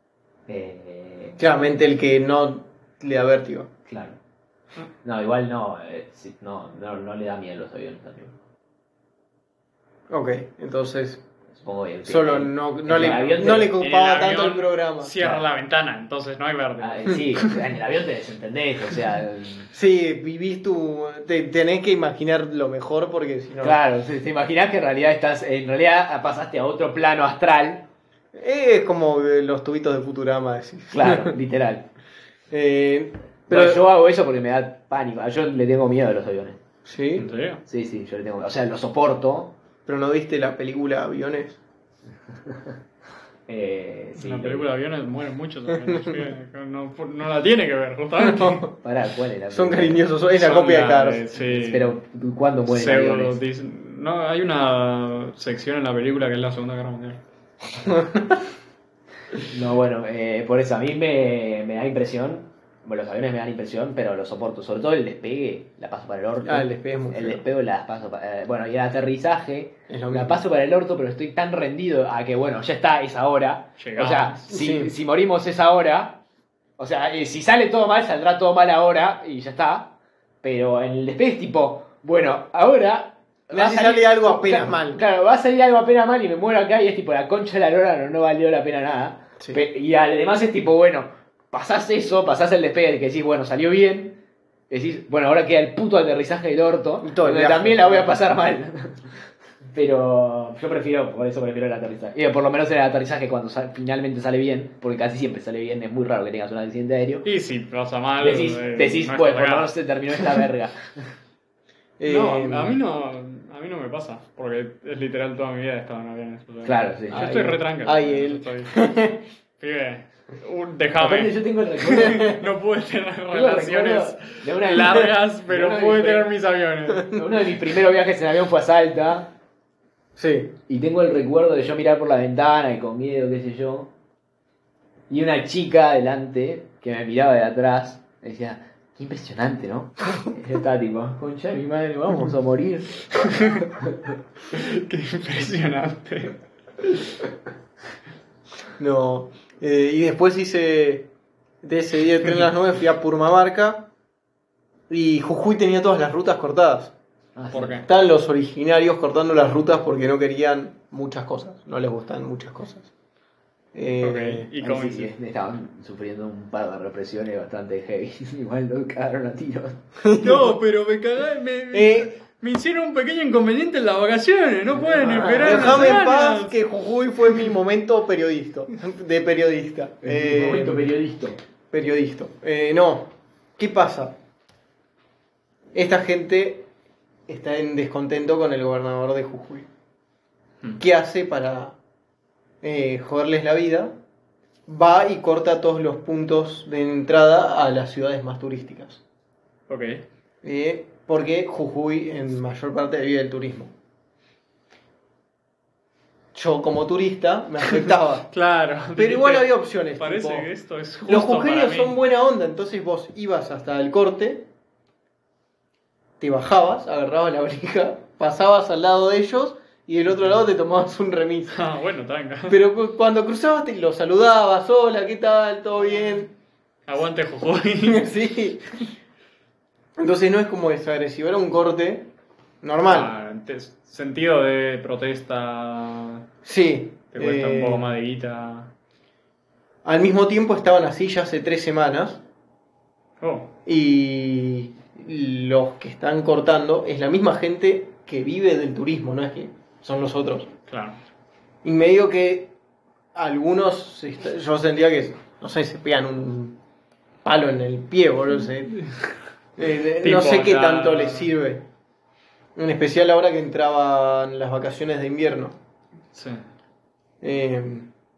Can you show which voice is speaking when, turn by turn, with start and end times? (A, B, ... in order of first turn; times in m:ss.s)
0:00.5-0:01.4 A
0:01.4-0:03.7 B
0:03.9-0:04.2 A
0:05.0-0:08.4 A
0:10.1-0:11.2 B
0:11.5-0:13.7 A
0:12.1-0:15.1 B
0:13.0-0:17.6 C
0:16.8-0:19.7 A
0:19.7-0:23.8 B
0:23.6-0:27.8 A
0:28.3-0:31.4 B
0:30.9-0:31.9 A
0:32.5-0:33.8 B
0:33.5-0:36.6 A
0:36.8-0:37.3 B
0:37.2-0:37.6 C
0:37.7-0:39.5 A
0:39.9-0:41.6 B
0:42.5-0:42.7 A
0:43.5-0:44.7 A
0:44.2-0:48.6 C
0:45.8-0:46.2 B
0:48.2-0:48.7 B
0:48.8-0:50.0 A
0:49.5-0:51.2 B
0:50.4-0:52.0 C
0:51.4-0:53.4 A
0:52.7-0:57.2 C
0:57.8-0:58.3 B
0:59.5-1:16.2 A
1:06.5-1:07.4 B
1:09.9-1:10.4 B
1:13.8-1:14.4 C
1:14.5-1:14.9 B
1:16.8-1:34.2 A
1:23.5-1:25.0 B
1:34.7-1:39.2 A
1:37.0-1:38.1 B
1:39.7-1:47.2 A
1:47.2-1:49.7 C
1:48.2-1:50.9 A
1:52.0-1:52.8 B
1:52.0-1:58.8 C
1:56.6-1:57.4 A
1:57.1-1:59.2 B
1:59.6-2:07.1 C
2:01.0-2:02.4 A
2:01.9-2:02.4 B
2:03.3-2:06.3 A
2:07.1-2:09.3 A
2:10.2-2:10.5 B
2:10.7-2:13.9 A
2:15.1-2:23.1 A
2:23.2-2:23.7 C
2:23.8-2:24.1 A
2:24.5-2:26.4 C
2:28.8-2:31.1 B
2:31.6-2:33.9 B
2:34.9-2:36.9 B
2:37.4-2:37.8 A
2:37.5-2:37.9 C
2:37.9-2:42.9 B
2:43.8-2:44.5 B
2:44.0-2:45.1 C
2:44.6-2:49.8 A
2:50.0-2:50.6 B
2:50.2-2:56.6 C
2:51.7-2:52.1 B
2:54.7-2:56.0 A
2:55.0-3:00.9 B
3:00.0-3:01.4 A
3:01.7-3:04.1 B
3:05.8-3:06.7 B
3:07.3-3:09.6 B
3:10.8-3:11.8 B
3:12.6-3:13.9 B
3:14.7-3:19.0 B
3:19.7-3:20.0 C
3:20.4-3:23.7 B
3:26.4-3:28.3 B
3:28.3-3:32.0 C
3:29.0-3:30.5 B
3:31.1-3:34.5 B
3:36.2-3:41.6 B
3:41.5-3:42.6 C
3:42.5-3:46.3 B
3:46.9-3:48.1 C
3:47.8-3:48.8 B
3:50.0-3:52.1 B
3:52.6-3:53.1 B
3:52.9-3:56.2 C
3:56.4-3:57.8 B
3:57.1-3:58.7 C
3:59.8-4:02.2 B
4:03.2-4:03.5 C
4:03.7-4:10.5 B
4:10.7-4:11.0 C
4:11.6-4:12.5 B
4:13.2-4:16.6 B
4:17.2-4:18.8 B
4:19.6-4:21.6 B
4:20.0-4:21.3 C
4:22.6-4:25.6 B
4:26.1-4:26.4 C
4:27.2-4:27.9 B